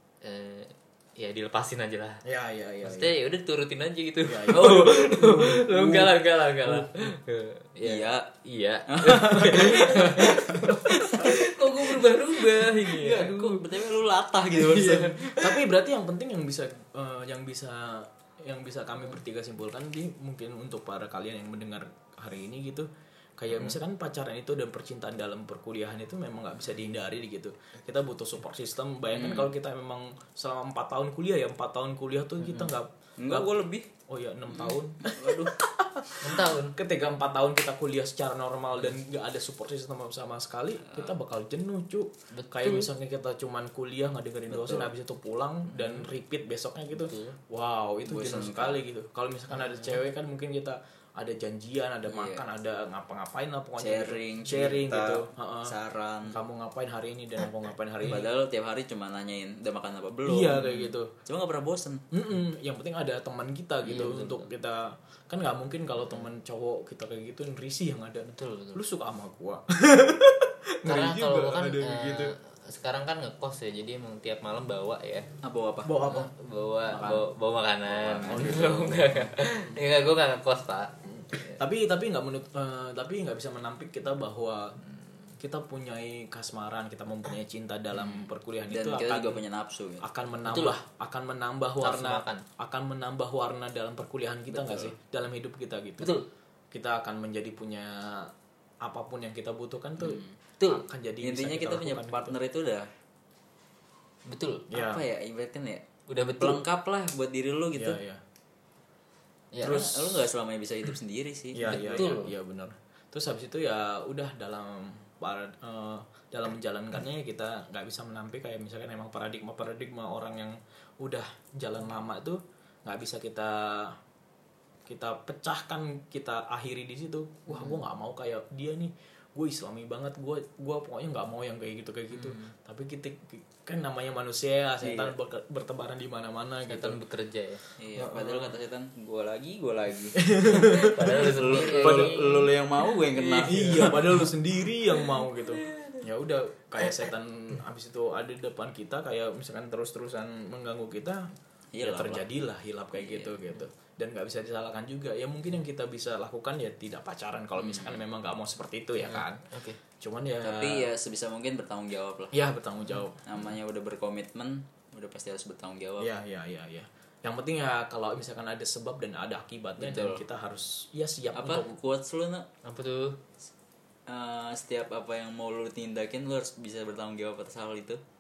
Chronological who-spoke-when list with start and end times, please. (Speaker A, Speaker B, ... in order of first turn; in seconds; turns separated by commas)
Speaker A: 0.2-2.2, Speaker B: 2.2-3.1, Speaker A: 2.8-13.6, Speaker B: 4.2-7.0, Speaker C: 4.5-5.1, Speaker C: 7.8-8.3, Speaker C: 8.9-11.4, Speaker C: 12.6-15.3, Speaker A: 14.6-15.5, Speaker B: 15.2-33.5, Speaker C: 29.1-29.5, Speaker C: 33.2-33.9, Speaker B: 34.1-55.8, Speaker C: 34.5-35.5, Speaker A: 36.2-36.8, Speaker A: 42.3-42.9, Speaker C: 44.5-44.9, Speaker A: 46.9-47.4, Speaker C: 48.0-48.8, Speaker C: 52.1-52.4, Speaker C: 53.8-56.4, Speaker B: 56.3-58.3, Speaker C: 58.0-62.0, Speaker B: 60.2-61.1, Speaker B: 62.1-72.3, Speaker A: 63.8-64.5, Speaker C: 63.9-64.1, Speaker A: 68.4-68.8, Speaker A: 70.8-75.3, Speaker C: 75.4-75.9, Speaker B: 75.8-76.3, Speaker A: 76.0-81.6, Speaker B: 76.9-77.2, Speaker C: 78.0-79.0, Speaker B: 78.2-79.7, Speaker B: 81.2-84.8, Speaker B: 85.4-89.4, Speaker C: 88.0-90.0, Speaker B: 90.0-96.1, Speaker A: 90.5-90.7, Speaker A: 91.8-92.4, Speaker C: 94.5-94.9, Speaker A: 96.0-96.3, Speaker B: 96.7-98.3, Speaker B: 98.8-102.3, Speaker C: 100.0-100.3, Speaker C: 101.2-102.9, Speaker A: 104.2-104.7, Speaker B: 104.7-105.0, Speaker C: 104.7-105.8, Speaker A: 106.1-106.6, Speaker C: 106.4-108.0, Speaker B: 107.7-108.2, Speaker A: 109.5-109.9, Speaker C: 109.6-112.1, Speaker B: 109.7-110.2, Speaker B: 111.5-124.0, Speaker A: 111.6-112.3, Speaker B: 124.9-137.0, Speaker C: 134.8-135.1, Speaker A: 136.7-137.6, Speaker C: 137.8-144.2, Speaker B: 137.9-138.5, Speaker B: 140.2-142.3, Speaker A: 140.6-142.5, Speaker A: 143.1-144.3, Speaker B: 143.5-151.2, Speaker C: 151.7-152.2, Speaker B: 151.8-160.9, Speaker C: 152.9-153.5, Speaker C: 157.6-158.0, Speaker A: 159.1-159.8, Speaker C: 160.4-162.3, Speaker B: 162.3-163.2, Speaker C: 163.2-166.1, Speaker B: 166.0-171.7, Speaker C: 169.8-170.2, Speaker C: 171.3-172.5, Speaker A: 172.6-173.2, Speaker C: 174.1-178.0